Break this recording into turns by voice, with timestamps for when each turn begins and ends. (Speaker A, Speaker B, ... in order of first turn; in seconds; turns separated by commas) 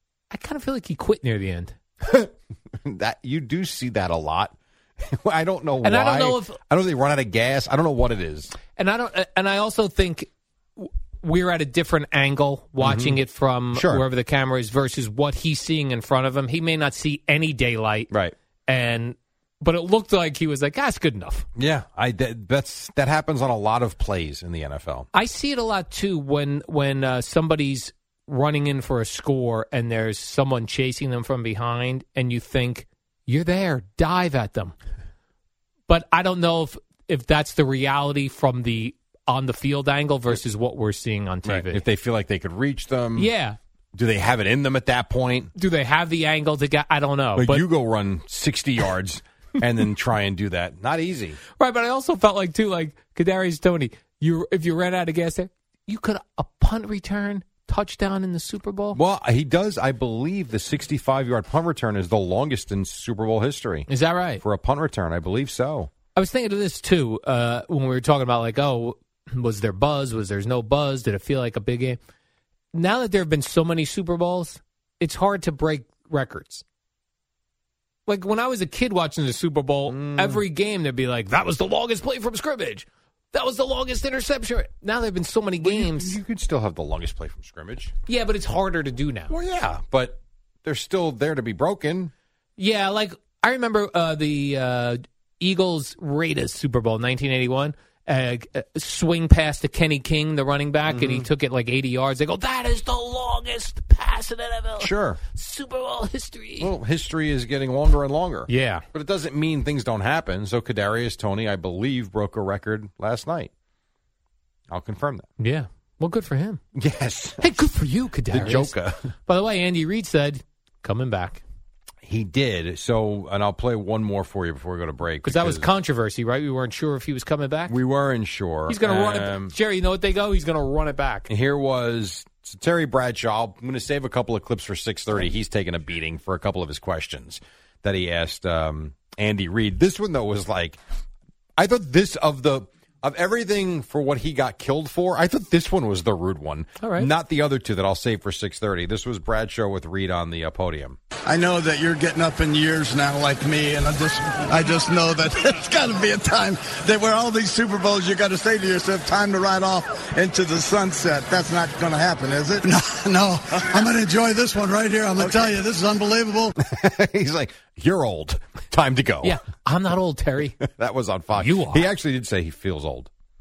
Speaker A: 0.3-1.8, Speaker B: 2.0-2.3, Speaker B: 2.8-8.5, Speaker A: 5.8-6.6, Speaker A: 8.7-18.1, Speaker B: 12.8-13.2, Speaker B: 13.7-14.0, Speaker A: 18.7-21.5, Speaker B: 21.6-25.1, Speaker A: 25.1-34.7, Speaker A: 35.9-41.8, Speaker B: 41.4-43.3, Speaker A: 43.1-43.6, Speaker B: 43.9-45.5, Speaker A: 45.5-47.6, Speaker B: 47.4-51.4, Speaker A: 51.6-59.0, Speaker B: 58.9-63.9, Speaker A: 63.9-64.4, Speaker B: 64.4-65.9, Speaker A: 66.1-72.0, Speaker A: 72.7-76.6, Speaker A: 78.0-86.2, Speaker B: 79.9-80.4, Speaker B: 85.6-87.9, Speaker A: 88.0-89.3, Speaker B: 89.3-92.1, Speaker A: 92.6-106.7, Speaker B: 100.9-101.3, Speaker B: 104.8-105.2, Speaker B: 106.6-113.5, Speaker A: 108.5-108.8, Speaker B: 114.7-115.3, Speaker A: 115.4-116.6, Speaker B: 116.7-117.5, Speaker A: 117.4-118.7, Speaker B: 118.3-119.1, Speaker A: 119.2-121.4, Speaker B: 122.0-125.7, Speaker A: 125.2-127.8, Speaker B: 127.7-129.5, Speaker A: 128.7-131.3, Speaker B: 131.3-140.8, Speaker B: 141.6-151.0, Speaker A: 146.8-147.1, Speaker C: 151.2-166.5, Speaker B: 165.2-165.4, Speaker B: 166.6-169.4, Speaker A: 169.2-170.6, Speaker B: 170.7-173.1, Speaker A: 171.3-171.9